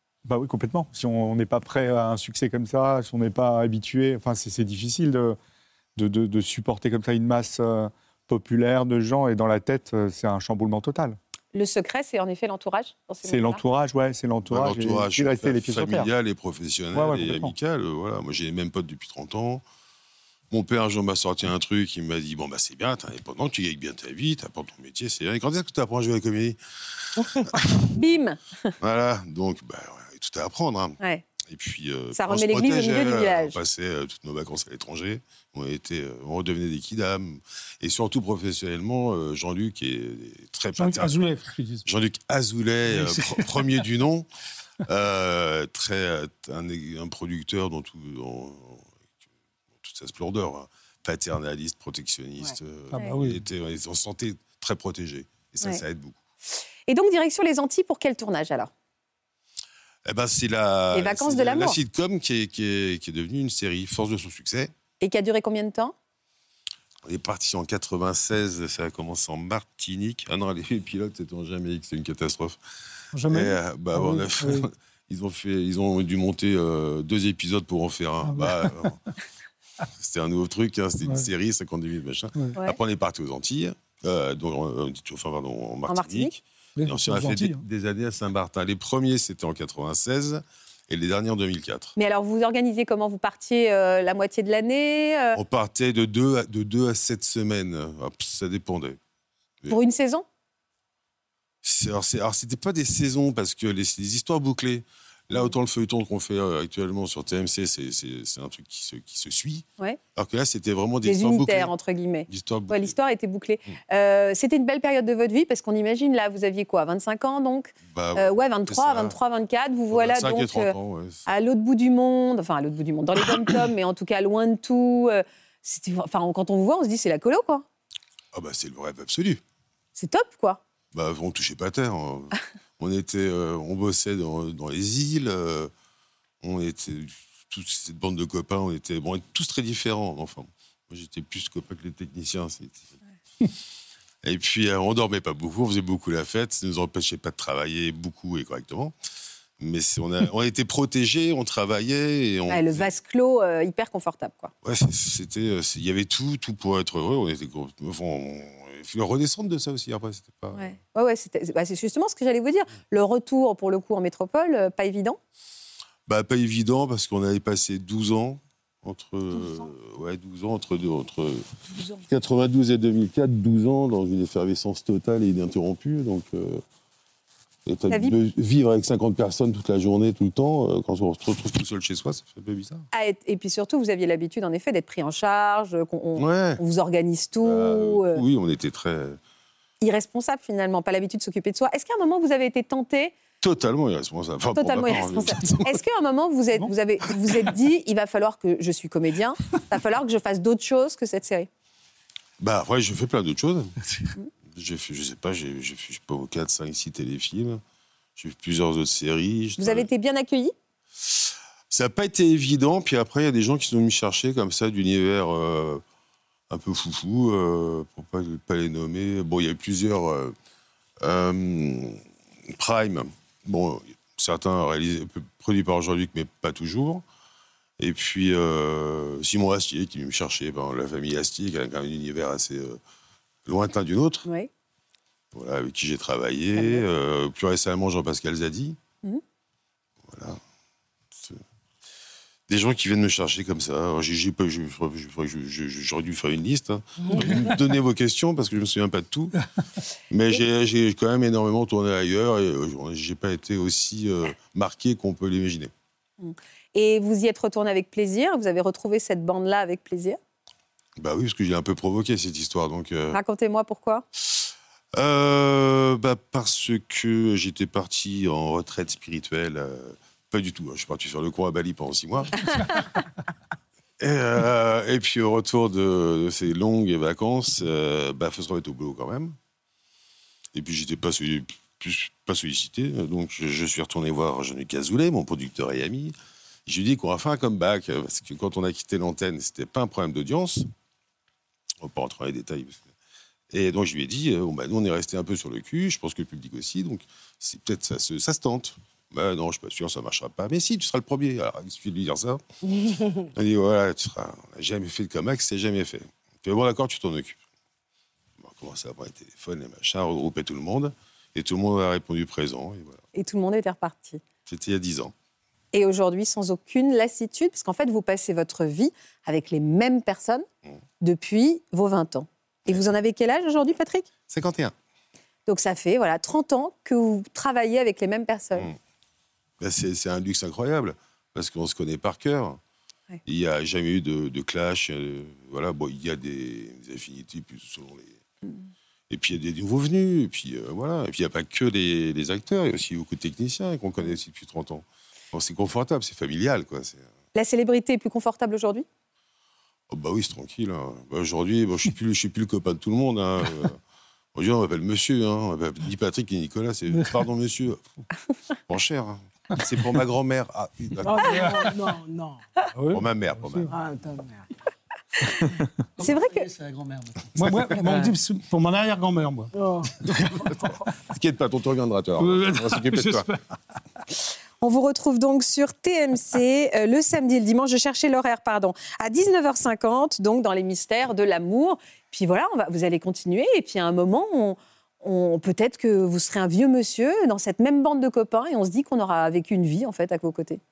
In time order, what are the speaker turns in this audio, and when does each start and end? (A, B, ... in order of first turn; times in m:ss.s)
0:00.2-0:05.4 A
0:06.0-0:11.2 A
0:11.5-0:13.6 B
0:13.2-0:16.1 A
0:14.5-0:19.6 C
0:16.9-0:17.5 A
0:20.5-0:27.9 C
0:27.9-0:28.7 B
0:28.8-0:41.1 C
0:31.0-0:31.2 B
0:32.1-0:33.6 B
0:40.8-0:41.8 D
0:41.8-0:44.3 C
0:42.9-0:43.6 D
0:44.8-0:48.9 C
0:49.8-0:56.2 C
0:52.9-0:53.4 D
0:56.9-0:58.7 B
1:00.0-1:04.7 C
1:00.9-1:01.8 B
1:05.0-1:05.9 B
1:07.0-1:12.6 C
1:13.1-1:14.7 D
1:13.3-1:19.0 C
1:18.2-1:18.9 D
1:20.0-1:31.9 C
1:21.0-1:21.3 D
1:25.9-1:26.3 B
1:26.8-1:27.6 D
1:32.0-1:35.4 B
1:35.3-1:39.0 C
1:39.7-1:40.2 B
1:41.6-1:51.7 C
1:51.0-2:00.7 B
1:52.3-1:52.9 C
1:57.9-1:59.2 C
1:59.9-2:01.2 C
2:01.2-2:07.6 B
2:08.3-2:09.4 C
2:10.0-2:10.6 B
2:10.9-2:15.7 C
2:16.4-2:22.9 C
2:24.2-2:28.9 C
2:29.6-2:32.8 C
2:32.5-2:34.5 B
2:34.6-2:40.6 C
2:40.5-2:45.2 B
2:46.1-2:51.4 C
2:52.0-2:56.6 C
2:57.6-3:02.8 C
2:57.9-2:58.1 B
3:02.9-3:08.2 B
3:06.2-3:06.6 C
3:07.4-3:09.2 C
3:09.8-3:13.1 B
3:13.4-3:15.8 C
3:14.5-3:21.5 B
3:22.4-3:23.8 C
3:24.5-3:27.6 C
3:28.2-3:29.9 C
3:29.6-3:30.5 B
3:31.7-3:35.8 C
3:36.5-3:40.3 C
3:41.0-3:47.0 C
3:47.8-3:52.8 C
3:53.4-3:54.3 C
3:55.3-3:58.8 C
3:56.6-3:56.8 B
4:00.1-4:00.4 C
4:02.5-4:09.4 C
4:10.1-4:15.7 C
4:16.2-4:20.2 B
4:21.0-4:23.2 C
4:23.1-4:24.0 B
4:24.3-4:32.9 C
4:32.5-4:32.8 B
4:34.0-4:39.4 C
4:40.5-4:46.1 C
4:46.6-4:50.7 C
4:51.8-4:52.8 C
4:53.5-5:02.4 C
5:02.7-5:03.2 E
5:03.3-5:07.4 C
5:08.4-5:13.0 C
5:13.1-5:14.2 B
5:14.4-5:15.1 C
5:15.7-5:20.4 B
5:21.0-5:24.1 B
5:24.3-5:24.7 C
5:25.5-5:28.7 B
5:29.6-5:32.6 C
5:33.2-5:38.2 C
5:39.1-5:47.0 C
5:47.3-5:48.8 B
5:49.9-5:53.8 C
5:54.3-5:57.8 C
5:56.9-5:57.1 D
5:58.7-6:01.7 C
6:01.0-6:02.4 E
6:01.2-6:01.7 D
6:02.7-6:03.7 D
6:02.9-6:03.7 C
6:03.7-6:04.4 E
6:05.2-6:06.5 B
6:07.3-6:09.5 D
6:09.5-6:09.9 E
6:10.7-6:13.3 C
6:12.2-6:13.4 D
6:14.6-6:30.6 B